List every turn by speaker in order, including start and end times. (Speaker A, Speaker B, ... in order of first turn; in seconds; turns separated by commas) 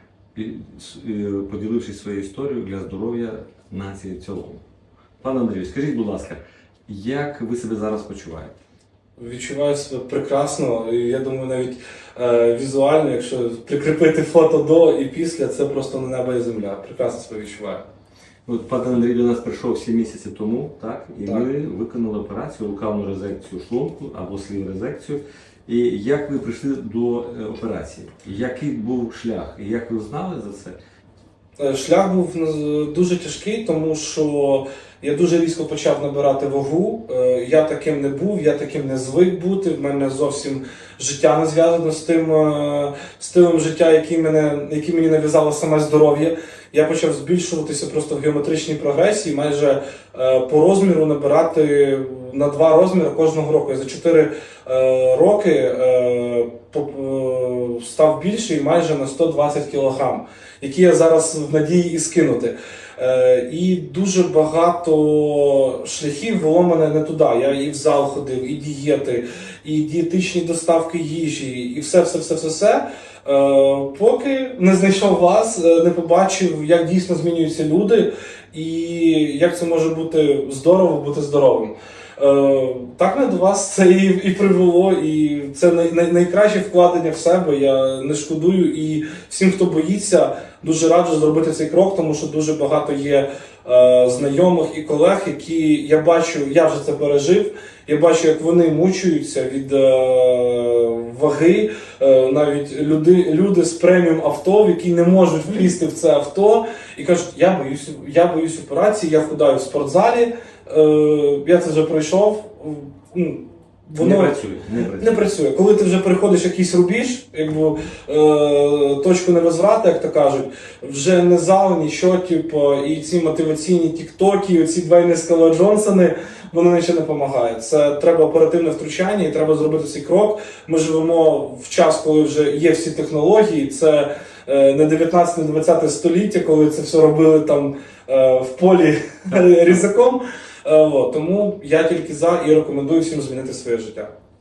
Speaker A: 0.3-4.6, Speaker A: 5.2-8.5, Speaker B: 9.2-17.8, Speaker A: 18.4-30.8, Speaker B: 31.6-114.3, Speaker A: 114.0-115.2, Speaker B: 115.0-144.1